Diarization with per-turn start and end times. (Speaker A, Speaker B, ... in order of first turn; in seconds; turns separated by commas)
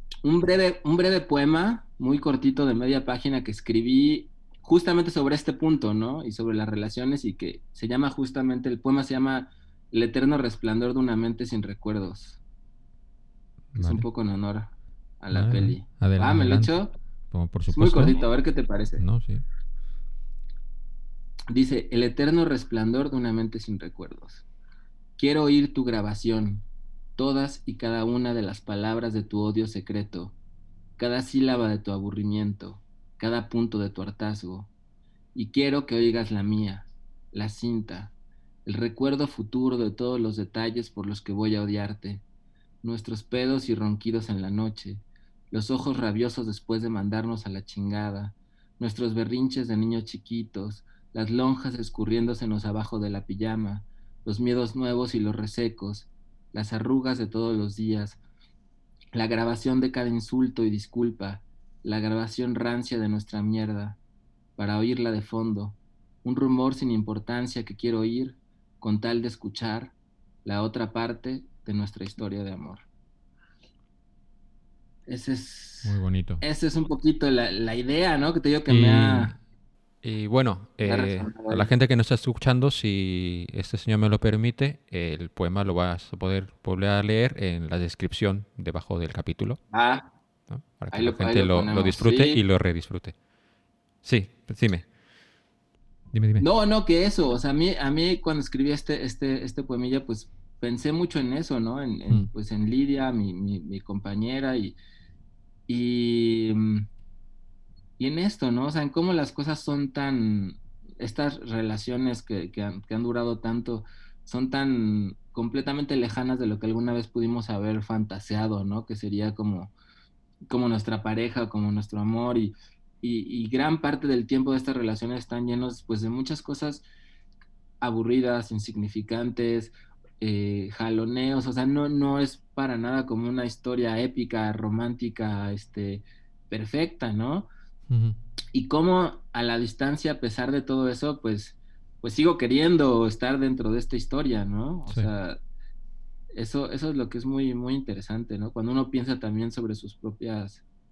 Speaker A: 0.2-12.4, Speaker B: 13.7-14.1, Speaker A: 13.7-16.9, Speaker B: 15.3-16.7, Speaker B: 17.3-18.2, Speaker A: 17.7-19.0, Speaker B: 19.0-19.4, Speaker A: 21.5-24.4, Speaker A: 25.2-26.6, Speaker A: 27.2-30.3, Speaker A: 31.0-34.7, Speaker A: 35.3-38.1, Speaker A: 38.6-42.2, Speaker A: 42.8-58.2, Speaker A: 59.1-64.0, Speaker A: 64.6-69.9, Speaker A: 70.4-72.8, Speaker A: 75.1-79.3, Speaker B: 75.8-76.4, Speaker B: 78.7-79.4, Speaker B: 80.0-89.6, Speaker A: 80.8-81.7, Speaker A: 89.7-90.1, Speaker B: 90.5-93.1, Speaker A: 90.9-92.4, Speaker B: 94.0-94.8, Speaker B: 96.1-96.5, Speaker A: 96.4-104.8, Speaker A: 105.7-106.9, Speaker A: 108.0-119.7, Speaker A: 120.5-126.8, Speaker A: 127.8-137.5, Speaker B: 137.9-138.2, Speaker A: 138.5-145.4, Speaker A: 146.3-150.6